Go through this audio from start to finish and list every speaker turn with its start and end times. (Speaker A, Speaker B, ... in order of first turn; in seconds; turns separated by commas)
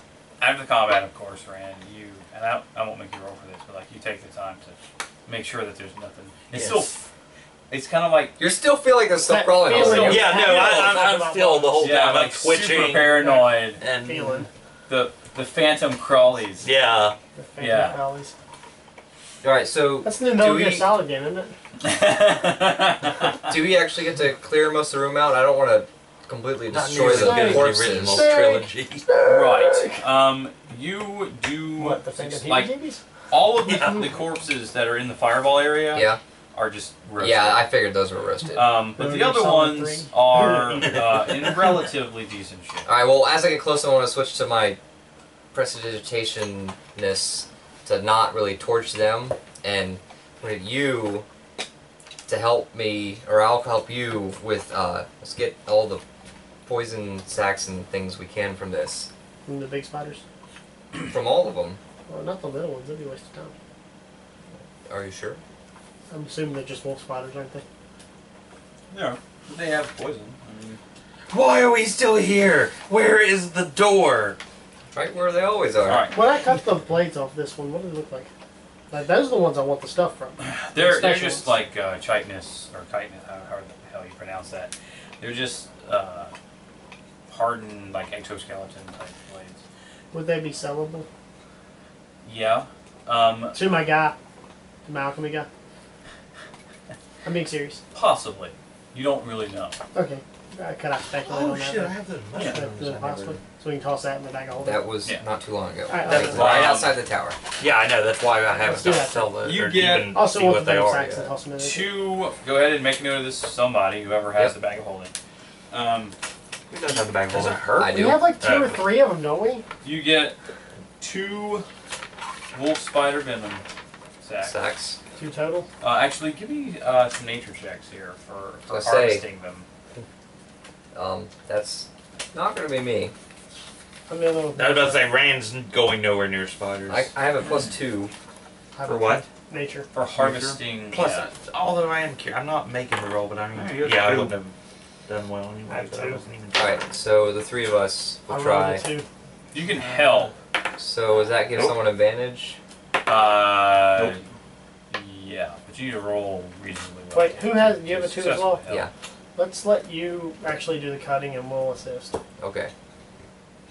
Speaker A: 0.4-7.1, Speaker B: 6.5-6.9, Speaker A: 7.7-8.3, Speaker C: 8.4-10.8, Speaker D: 9.2-11.9, Speaker B: 9.7-14.5, Speaker A: 11.8-13.8, Speaker D: 13.1-14.5, Speaker A: 14.9-16.7, Speaker B: 16.6-17.2, Speaker D: 17.4-18.3, Speaker A: 17.6-18.0, Speaker C: 19.4-20.9, Speaker D: 20.0-21.5, Speaker A: 21.8-23.4, Speaker C: 23.5-28.3, Speaker B: 26.7-29.1, Speaker D: 27.0-30.0, Speaker A: 29.2-32.7, Speaker D: 31.8-33.0, Speaker A: 33.3-37.6, Speaker B: 33.7-34.0, Speaker D: 33.7-34.0, Speaker C: 35.9-36.2, Speaker C: 37.2-38.6, Speaker A: 38.5-42.9, Speaker D: 39.0-40.9, Speaker C: 42.9-44.8, Speaker C: 45.5-51.2, Speaker C: 52.3-56.0, Speaker C: 56.6-59.1, Speaker D: 59.5-60.2, Speaker C: 61.0-61.8, Speaker D: 62.1-63.5, Speaker C: 64.8-65.4, Speaker D: 66.1-67.6, Speaker A: 68.9-70.8, Speaker B: 71.3-74.4, Speaker C: 74.9-76.1, Speaker A: 75.8-76.2, Speaker D: 76.1-78.3, Speaker D: 78.9-81.5, Speaker A: 80.4-86.3, Speaker A: 87.3-89.6, Speaker D: 90.1-91.0, Speaker A: 92.2-93.6, Speaker D: 93.5-94.2, Speaker D: 94.8-95.5, Speaker D: 97.2-97.8, Speaker A: 97.9-99.8, Speaker D: 99.9-104.8, Speaker B: 101.2-103.4, Speaker A: 102.3-102.6, Speaker C: 104.6-107.4, Speaker D: 105.9-106.5, Speaker B: 106.1-106.8, Speaker A: 106.1-107.0, Speaker B: 107.6-111.3, Speaker D: 108.5-109.3, Speaker A: 109.4-110.1, Speaker D: 109.9-111.9, Speaker A: 111.6-115.1, Speaker A: 115.7-116.2, Speaker B: 116.7-118.8, Speaker A: 116.8-117.6, Speaker C: 117.8-118.2, Speaker D: 117.9-119.6, Speaker A: 119.8-120.4, Speaker A: 121.0-121.7, Speaker A: 122.5-123.6, Speaker A: 124.2-124.6, Speaker C: 124.4-125.0, Speaker D: 125.2-125.7, Speaker A: 125.8-129.7, Speaker C: 128.7-129.2, Speaker C: 130.9-133.1, Speaker D: 134.1-135.1, Speaker B: 134.6-137.1, Speaker C: 136.9-138.1, Speaker A: 137.4-137.7, Speaker D: 138.7-139.9, Speaker B: 138.8-139.2, Speaker A: 139.9-141.3, Speaker B: 140.2-144.5, Speaker A: 143.5-144.3, Speaker B: 145.1-146.8, Speaker D: 145.7-146.2, Speaker C: 146.6-148.8, Speaker D: 148.3-149.1, Speaker A: 149.5-150.3, Speaker B: 149.6-150.3, Speaker C: 150.8-152.6, Speaker A: 153.0-154.2, Speaker A: 154.9-158.8, Speaker D: 157.1-158.6, Speaker D: 159.3-162.2, Speaker C: 162.4-162.7